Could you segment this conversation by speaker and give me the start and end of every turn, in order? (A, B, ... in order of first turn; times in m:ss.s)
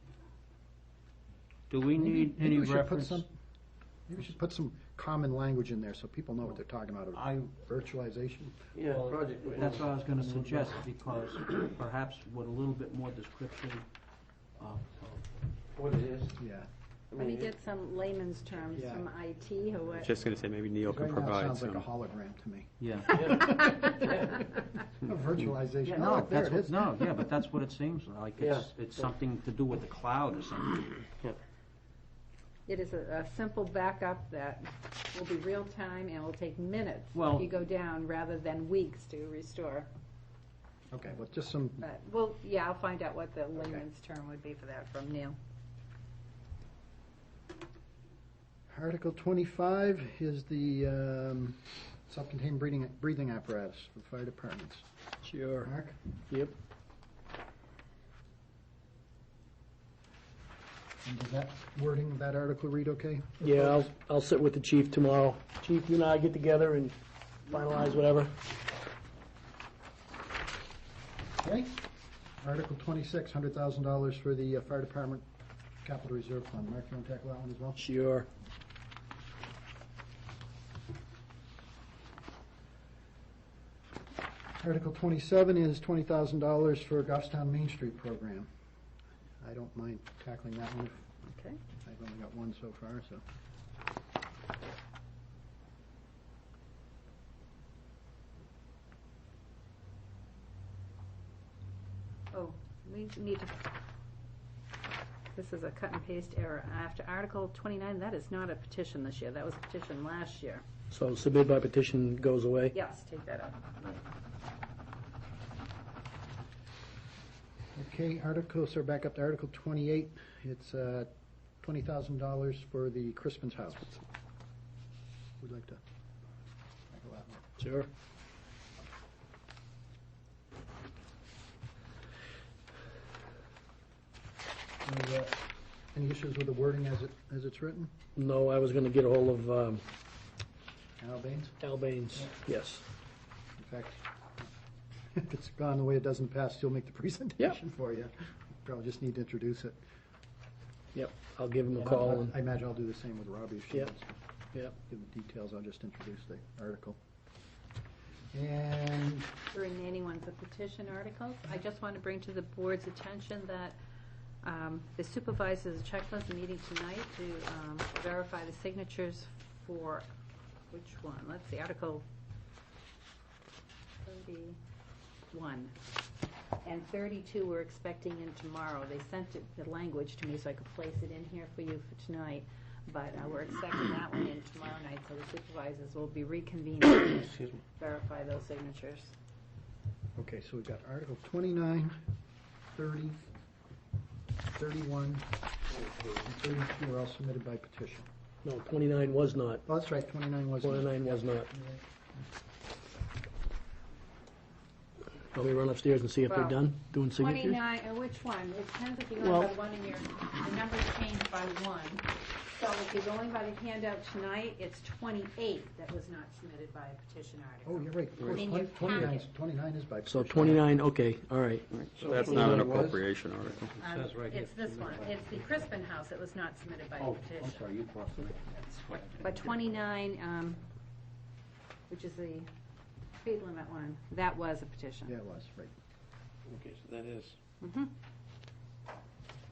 0:01.7-0:03.3 A
0:02.0-0:03.3 B
0:04.1-0:08.6 B
0:07.1-0:07.4 A
0:08.8-0:09.8 C
0:08.8-0:13.9 A
0:14.6-0:15.2 A
0:15.8-0:16.2 C
0:16.4-0:16.7 B
0:17.1-0:20.1 D
0:17.2-0:17.5 C
0:20.0-0:21.8 E
0:20.8-0:24.5 B
0:22.8-0:23.2 A
0:23.2-0:24.2 D
0:25.0-0:27.0 B
0:25.8-0:30.9 A
0:28.4-0:28.7 C
0:32.7-0:39.9 D
0:37.2-0:37.5 A
0:40.9-0:41.9 B
0:41.8-0:45.4 D
0:48.7-0:54.9 B
0:55.3-0:55.7 F
0:55.6-0:56.0 B
1:01.0-1:03.8 B
1:03.4-1:06.9 F
1:07.5-1:08.3 F
1:11.4-1:11.9 B
1:12.4-1:15.2 B
1:15.8-1:17.8 B
1:17.8-1:18.3 F
1:24.6-1:28.5 B
1:29.4-1:31.1 B
1:31.3-1:31.6 D
1:31.8-1:33.2 B
1:42.3-1:43.7 D
1:45.3-1:50.6 D
1:50.9-1:52.7 F
1:52.7-1:53.6 D
1:57.8-2:01.1 B
2:01.6-2:04.0 B
2:05.4-2:05.8 B
2:06.9-2:07.4 B
2:07.6-2:07.9 F
2:14.8-2:15.4 B
2:15.9-2:17.9 B
2:18.2-2:19.8 F
2:21.0-2:21.6 B
2:21.6-2:22.8 F
2:23.6-2:24.5 B
2:25.1-2:29.8 B
2:31.0-2:32.3 F
2:31.8-2:34.2 B
2:34.8-2:37.0 B
2:38.3-2:39.3 B
2:39.5-2:43.8 D
2:44.4-2:50.1 D
2:50.7-2:52.0 D
2:54.0-2:54.6 D
2:55.3-2:55.8 D
2:56.6-3:09.1 D
3:10.2-3:12.0 B
3:12.7-3:13.2 B
3:14.5-3:15.3 B
3:16.1-3:18.1 B
3:18.4-3:19.6 F
3:19.7-3:21.8 B
3:20.6-3:21.5 F
3:25.3-3:27.6 F
3:26.3-3:39.2 D
3:29.2-3:29.5 F
3:37.6-3:40.6 B
3:40.1-3:41.6 F
3:41.7-3:43.7 E
3:42.0-3:43.0 A
3:42.2-3:42.7 C
3:43.6-3:45.2 A
3:43.8-3:47.7 D
3:47.0-3:49.4 A
3:49.2-3:50.6 D
3:51.9-3:52.5 D
3:53.2-3:55.1 D
3:55.1-3:55.7 B
3:56.5-3:57.1 C
3:56.6-3:57.3 A
3:57.6-3:57.9 D